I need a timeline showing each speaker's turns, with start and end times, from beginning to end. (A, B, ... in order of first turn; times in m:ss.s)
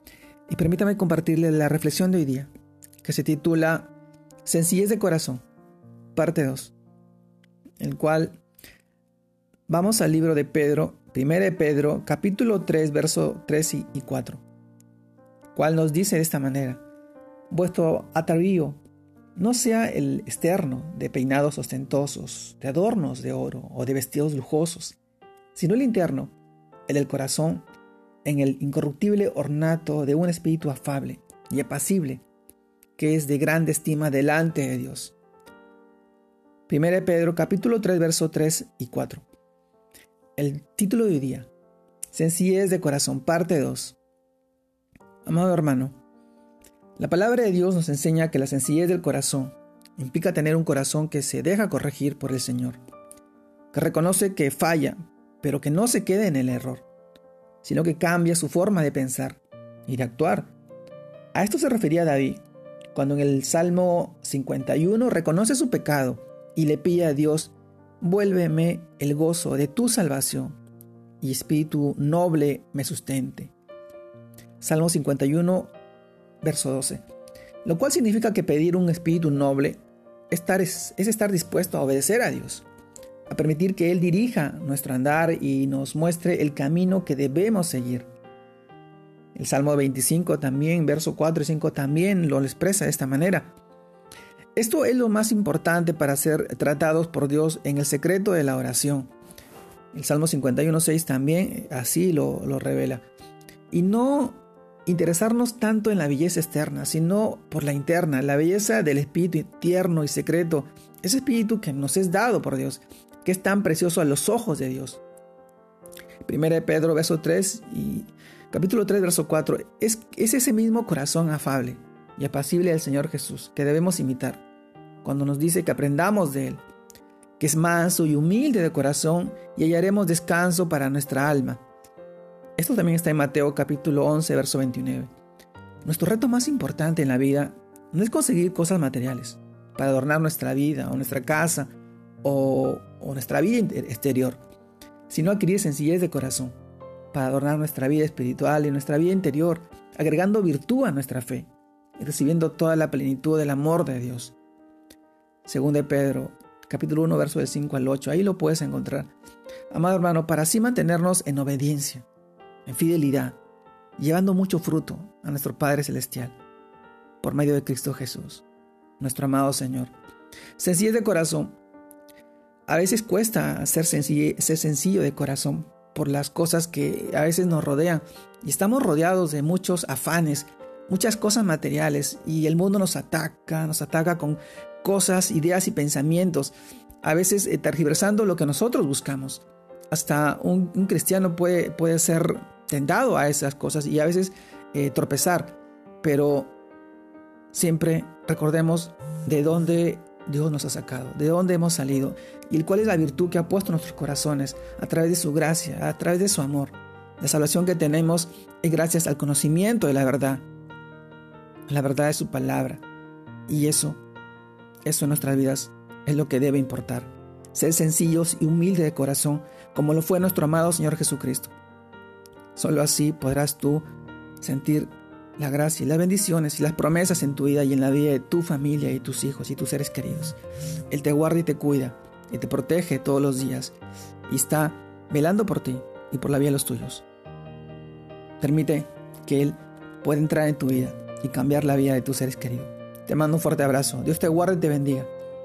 0:00.5-0:02.5 A
0:03.0-0:03.9 A
0:04.4-0:05.4 A
0:06.1-0:06.7 A
0:07.8-0:08.4 A
0:09.7-0:14.4 A
0:15.5-0:16.8 A
0:17.5-0:18.8 A
0:19.4-0:25.0 A
0:25.5-0:26.3 A
0:26.9-0:27.6 A
0:28.2-0:32.2 A
0:33.0-0:35.1 A
0:36.7-0:39.2 A
0:40.4-0:41.5 A
0:42.1-0:44.0 A
0:45.2-0:46.0 A
0:47.0-0:52.8 A
0:53.7-0:56.8 A
0:57.6-1:00.5 A
1:01.3-1:02.4 A
1:02.9-1:10.6 A
1:11.2-1:13.5 A
1:14.6-1:15.7 A
1:16.4-1:17.0 A
1:17.6-1:22.6 A
1:23.3-1:28.1 A
1:29.3-1:33.5 A
1:34.6-1:39.1 A
1:39.9-1:43.0 A
1:43.7-1:55.0 A
1:56.2-2:04.4 A
2:05.0-2:06.6 A
2:07.4-2:11.6 A
2:12.6-2:15.1 A
2:15.8-2:24.4 A
2:25.1-2:26.5 A
2:27.1-2:34.3 A
2:35.4-2:39.1 A
2:39.7-2:42.0 A
2:42.6-2:43.4 A
2:44.0-2:46.4 A
2:47.2-2:48.4 A
2:49.0-2:49.9 A
2:50.6-2:51.6 A
2:52.7-3:16.5 A
3:17.5-3:30.4 A
3:31.7-3:32.8 A
3:33.5-3:34.0 A
3:34.8-3:41.5 A
3:42.5-3:43.8 A
3:44.4-3:50.4 A
3:50.9-3:53.7 A
3:54.3-3:57.0 A
3:58.4-4:05.1 A